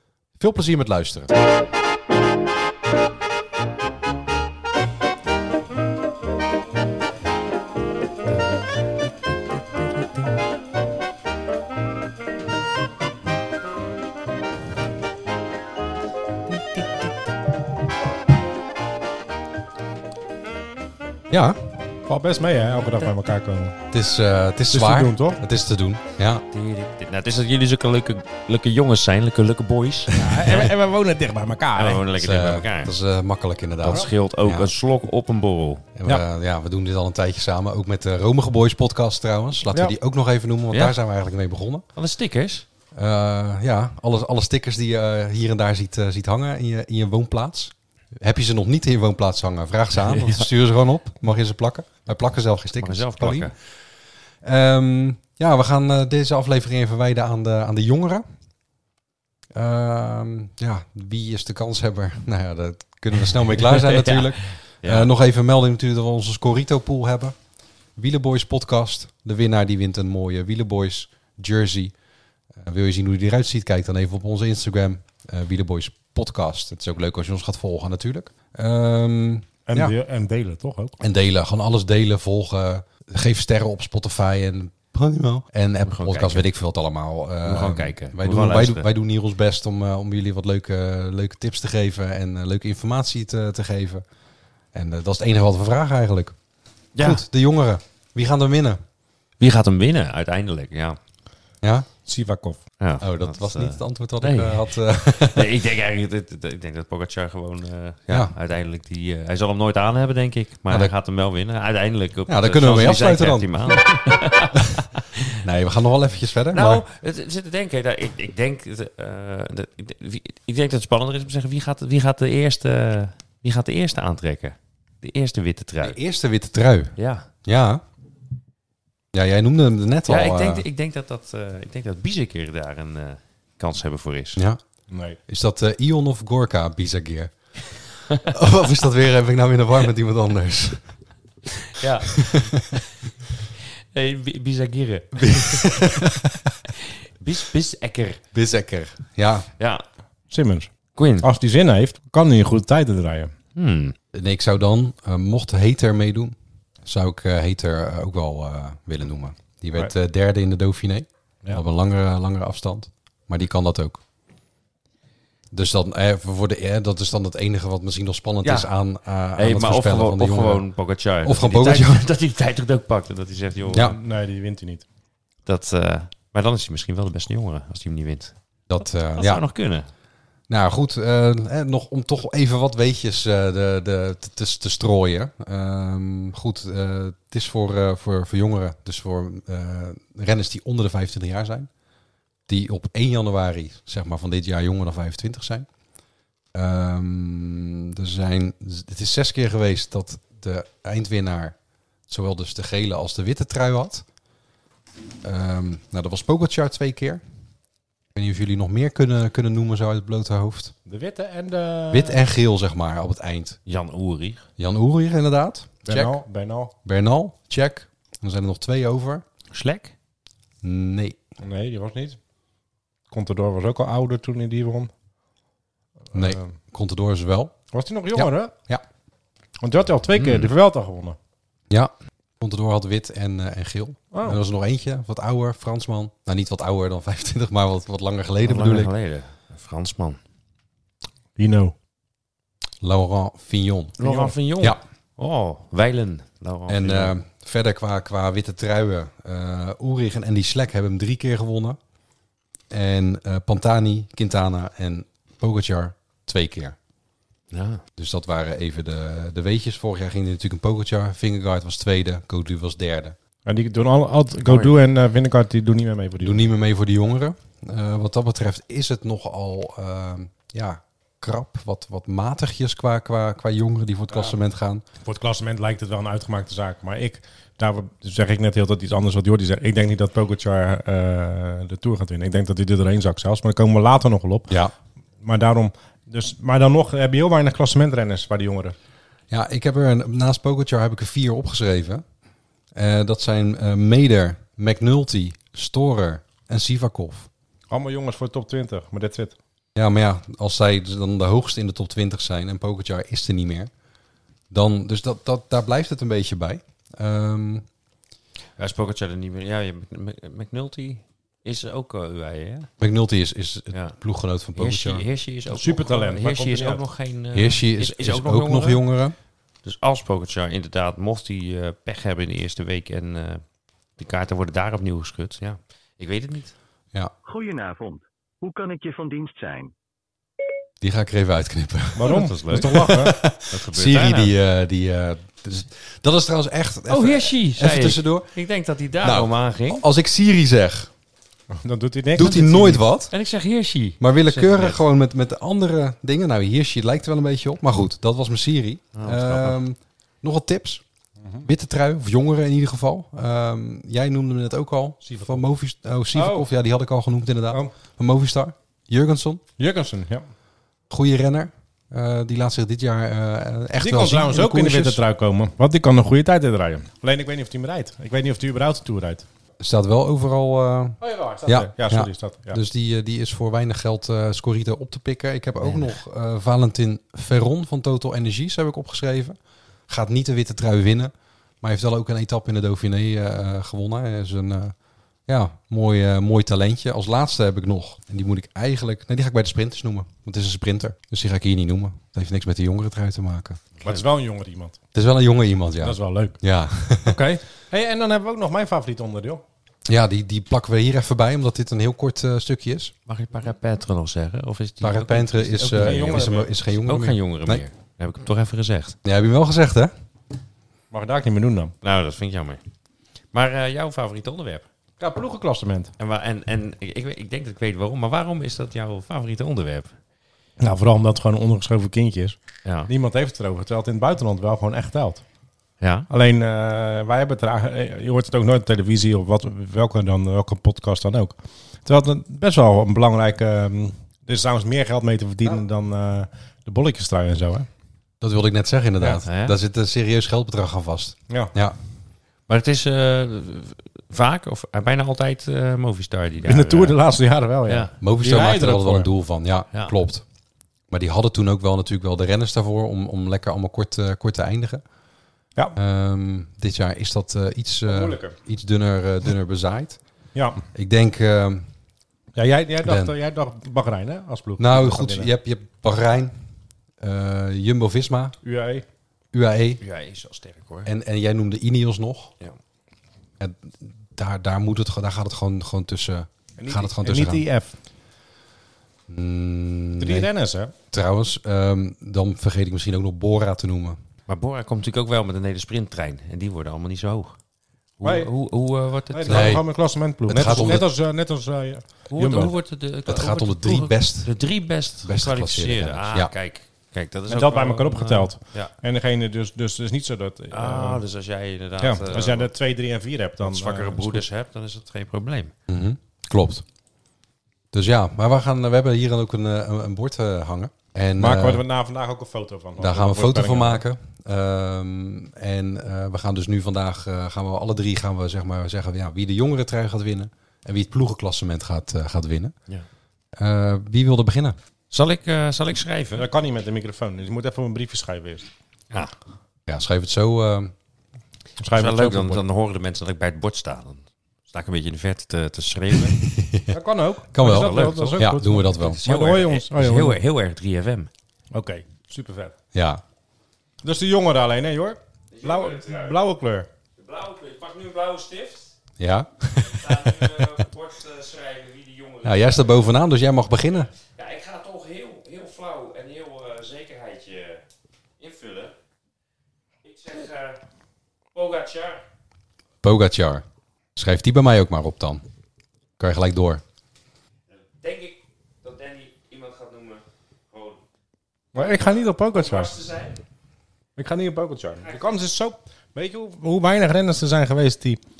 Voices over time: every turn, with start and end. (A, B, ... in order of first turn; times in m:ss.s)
0:00.4-0:01.3 A
0:21.3-0:21.6 A
0:22.1-0:23.8 B
0:23.9-0:26.4 A
0:24.7-0:25.4 B
0:26.5-0:30.7 C
0:30.1-0:32.0 B
0:31.8-0:32.9 C
0:32.2-0:34.7 A
0:33.8-0:35.9 C
0:36.0-0:41.9 A
0:40.7-0:41.0 C
0:42.0-0:42.7 C
0:43.0-0:53.5 A
0:50.2-0:50.5 C
0:52.8-0:53.5 C
0:54.4-0:58.2 A
0:59.5-1:07.4 A
1:03.6-1:05.1 C
1:08.0-1:11.9 A
1:12.6-1:19.9 A
1:19.7-1:21.0 B
1:21.0-1:34.0 A
1:25.9-1:26.5 C
1:27.4-1:28.9 C
1:34.7-1:36.4 A
1:37.0-1:37.2 C
1:37.0-1:38.8 A
1:39.4-1:41.0 C
1:41.6-1:41.9 A
1:42.1-1:42.6 B
1:42.8-1:55.3 C
1:43.0-1:45.6 A
1:52.3-1:53.8 A
1:55.4-1:56.8 A
1:56.5-2:06.0 C
2:05.8-2:07.8 A
2:07.0-2:07.3 C
2:09.1-2:10.7 A
2:10.1-2:14.4 C
2:14.9-2:15.2 B
2:15.3-2:17.3 A
2:18.1-2:21.0 A
2:21.7-2:22.8 C
2:23.9-2:26.1 C
2:25.2-2:26.5 A
2:27.2-2:28.2 C
2:28.3-2:29.5 A
2:30.3-2:33.3 B
2:31.0-2:31.3 C
2:33.6-2:34.0 C
2:34.1-2:36.3 A
2:36.8-2:44.0 A
2:45.5-2:50.7 A
2:48.4-2:48.7 C
2:49.4-2:54.0 C
2:51.2-2:52.0 A
2:53.7-2:54.8 B
2:55.5-2:58.3 C
2:58.7-2:59.4 A
2:59.1-2:59.9 C
3:00.5-3:11.7 A
3:12.5-3:15.7 A
3:16.5-3:21.6 A
3:22.1-3:24.0 A
3:25.2-3:27.2 A
3:28.2-3:30.7 A
3:30.9-3:32.2 B
3:31.9-3:33.6 A
3:33.7-3:34.5 C
3:34.6-3:36.2 A
3:35.9-3:36.7 B
3:36.8-3:39.2 A
3:39.5-3:39.9 C
3:40.6-3:41.2 A
3:41.4-3:42.2 B
3:43.1-3:44.9 B
3:46.1-3:47.5 A
3:46.1-3:46.5 B
3:47.7-3:48.5 B
3:48.1-3:48.8 A
3:49.6-3:51.2 B
3:50.2-3:50.5 C
3:51.7-3:58.9 A
3:54.1-3:54.4 B
3:58.4-4:00.2 C
4:01.4-4:01.7 B
4:02.8-4:04.0 A
4:04.0-4:07.2 C
4:04.0-4:04.4 B
4:06.7-4:11.8 A
4:12.7-4:16.8 A
4:17.5-4:17.8 C
4:18.0-4:23.2 A
4:23.4-4:26.5 B
4:24.4-4:24.7 C
4:26.2-4:34.8 A
4:34.1-4:34.4 B
4:35.0-4:44.5 B
4:45.2-4:48.8 B
4:49.3-4:52.0 A
4:52.8-4:57.3 A
4:57.7-4:59.3 B
4:59.8-5:03.7 A
5:04.5-5:07.6 A
5:08.6-5:12.7 C
5:12.8-5:15.0 A
5:13.7-5:14.0 C
5:14.6-5:18.9 C
5:15.5-5:16.8 B
5:17.3-5:19.2 A
5:19.6-5:23.4 C
5:24.0-5:26.5 C
5:27.3-5:29.7 D
5:30.8-5:38.4 A
5:32.0-5:33.2 B
5:32.0-5:34.4 C
5:36.9-5:39.8 C
5:39.0-5:40.9 A
5:41.5-5:42.8 B
5:42.2-5:43.1 A
5:43.1-5:44.8 C
5:44.0-5:50.8 A
5:49.0-5:49.6 C
5:51.2-5:51.5 B
5:51.4-5:59.4 A
5:55.1-5:55.4 B
5:56.1-5:56.5 B
5:59.6-6:00.3 B
6:00.9-6:05.0 A
6:03.8-6:09.2 B
6:09.6-6:19.4 A
6:11.0-6:12.6 B
6:15.6-6:15.9 C
6:19.9-6:24.7 A
6:25.3-6:33.6 A
6:33.8-6:34.8 B
6:34.9-6:37.2 A
6:35.8-6:36.4 B
6:37.0-6:39.4 B
6:39.9-6:42.9 A
6:43.1-6:46.3 C
6:44.8-6:47.6 A
6:45.6-6:46.5 B
6:46.8-6:49.0 C
6:49.0-6:49.9 A
6:50.9-6:51.7 B
6:51.8-6:52.6 C
6:53.3-6:54.7 C
6:55.0-6:55.9 B
6:56.0-6:59.9 C
7:00.6-7:05.2 B
7:02.6-7:02.9 C
7:05.8-7:06.1 C
7:06.1-7:17.7 B
7:18.2-7:21.8 A
7:19.2-7:19.6 C
7:22.5-7:27.0 C
7:26.4-7:29.1 B
7:27.7-7:27.9 C
7:28.0-7:30.2 A
7:30.9-7:34.8 A
7:35.8-7:40.0 A
7:37.9-7:38.4 B
7:40.3-7:40.6 B
7:40.7-7:41.6 A
7:42.4-7:45.3 B
7:42.8-7:43.1 A
7:44.6-7:46.3 A
7:47.0-7:48.4 A
7:48.4-7:48.8 B
7:49.3-7:49.8 A
7:49.8-7:50.9 C
7:50.8-7:52.3 A
7:53.4-7:57.4 A
7:56.6-7:57.8 B
7:59.1-8:00.3 A
8:00.0-8:00.7 B
8:00.9-8:04.0 A
8:04.3-8:07.4 C
8:08.0-8:09.6 C
8:08.0-8:08.3 B
8:09.1-8:12.5 B
8:09.3-8:09.7 A
8:10.2-8:10.9 A
8:10.3-8:10.8 C
8:12.1-8:18.7 C
8:13.1-8:16.3 A
8:17.3-8:21.0 B
8:20.5-8:22.5 C
8:21.8-8:24.2 B
8:23.4-8:25.5 C
8:25.7-8:26.6 A
8:27.7-8:31.6 A
8:31.2-8:33.8 B
8:32.8-8:42.5 A
8:43.4-8:44.6 A
8:44.9-8:46.3 C
8:46.1-8:48.5 B
8:49.7-8:50.7 A
8:51.6-8:52.4 B
8:51.7-8:56.2 C
8:56.4-8:56.7 A
8:56.7-9:00.2 B
8:57.3-8:59.0 A
8:57.4-9:01.1 C
9:01.5-9:02.5 B
9:02.7-9:03.0 A
9:03.8-9:06.7 B
9:05.3-9:06.2 C
9:07.0-9:08.8 C
9:09.0-9:09.9 A
9:09.6-9:12.8 C
9:12.2-9:13.9 A
9:14.2-9:17.6 C
9:18.2-9:18.7 C
9:19.8-9:20.6 C
9:21.3-9:22.0 C
9:22.8-9:23.4 A
9:24.0-9:25.2 A
9:26.0-9:26.6 A
9:27.5-9:30.8 C
9:31.5-9:32.7 B
9:31.6-9:33.2 C
9:34.0-9:38.0 B
9:34.8-9:35.2 C